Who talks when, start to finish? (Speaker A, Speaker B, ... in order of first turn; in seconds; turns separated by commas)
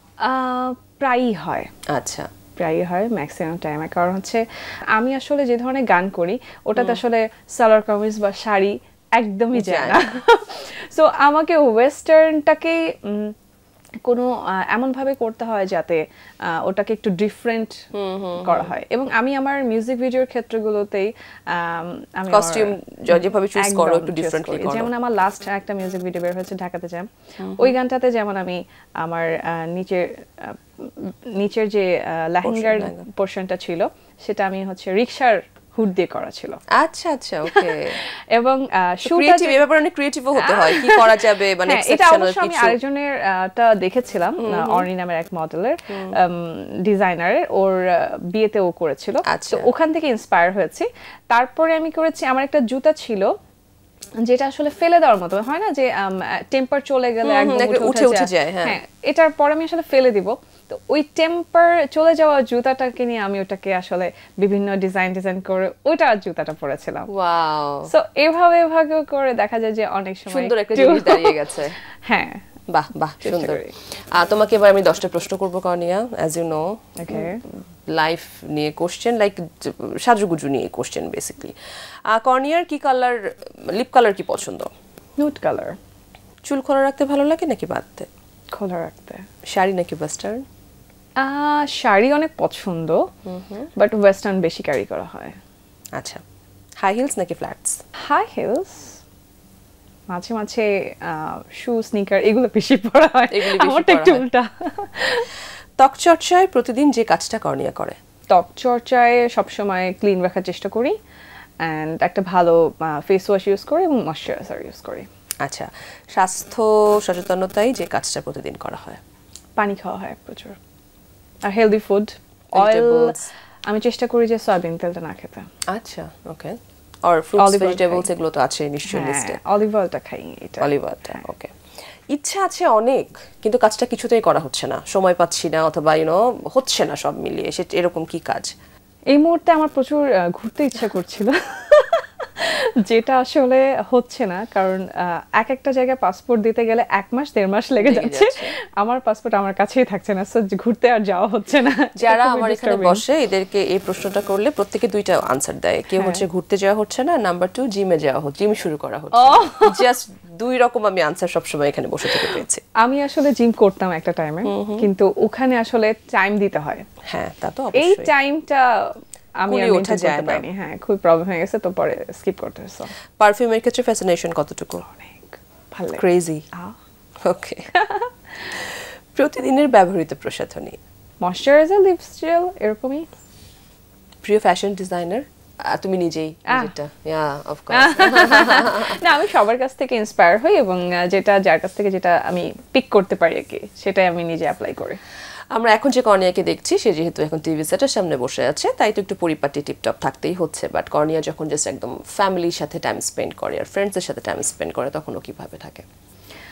Speaker A: 0.2-1.7, Speaker B: 1.9-2.3, Speaker A: 2.6-4.4, Speaker A: 4.9-13.3, Speaker B: 9.5-10.0, Speaker A: 14.1-17.8, Speaker B: 17.9-18.7, Speaker A: 18.4-36.6, Speaker B: 22.3-24.9, Speaker B: 27.4-27.7, Speaker B: 32.4-33.0, Speaker B: 36.7-38.0, Speaker A: 37.5-39.6, Speaker B: 39.0-42.8, Speaker A: 40.4-53.3, Speaker B: 44.4-44.9, Speaker B: 49.3-49.7, Speaker A: 54.2-67.1, Speaker B: 57.2-58.8, Speaker B: 67.1-67.9, Speaker A: 67.9-72.4, Speaker B: 70.3-71.7, Speaker B: 72.7-77.3, Speaker A: 73.2-73.7, Speaker A: 77.0-77.4, Speaker B: 77.9-81.5, Speaker B: 82.1-83.2, Speaker B: 83.7-84.7, Speaker A: 85.2-85.8, Speaker B: 86.5-88.1, Speaker A: 88.5-89.2, Speaker B: 89.5-90.4, Speaker A: 91.2-93.0, Speaker B: 93.2-93.7, Speaker A: 93.8-95.3, Speaker B: 96.8-97.8, Speaker A: 98.0-99.0, Speaker A: 100.1-105.3, Speaker B: 103.3-104.2, Speaker B: 105.8-108.0, Speaker A: 108.3-111.0, Speaker A: 111.6-115.1, Speaker B: 115.4-119.0, Speaker A: 119.6-120.6, Speaker A: 121.5-123.1, Speaker B: 122.5-123.3, Speaker A: 123.7-125.5, Speaker B: 125.7-129.4, Speaker A: 127.4-128.1, Speaker A: 128.9-131.2, Speaker B: 130.6-131.5, Speaker B: 132.1-138.5, Speaker A: 139.1-153.0, Speaker B: 147.8-148.5, Speaker B: 152.0-162.6, Speaker A: 155.9-156.2, Speaker A: 159.2-159.8, Speaker A: 162.8-166.8, Speaker B: 164.4-164.8, Speaker B: 167.1-168.1, Speaker A: 167.8-172.9, Speaker B: 169.5-170.4, Speaker B: 173.2-174.8, Speaker A: 174.8-176.8, Speaker B: 175.9-176.4, Speaker B: 177.2-177.7, Speaker A: 177.7-178.1, Speaker B: 179.1-180.8, Speaker A: 181.2-183.1, Speaker B: 184.2-189.0, Speaker A: 187.7-195.0, Speaker B: 195.5-205.8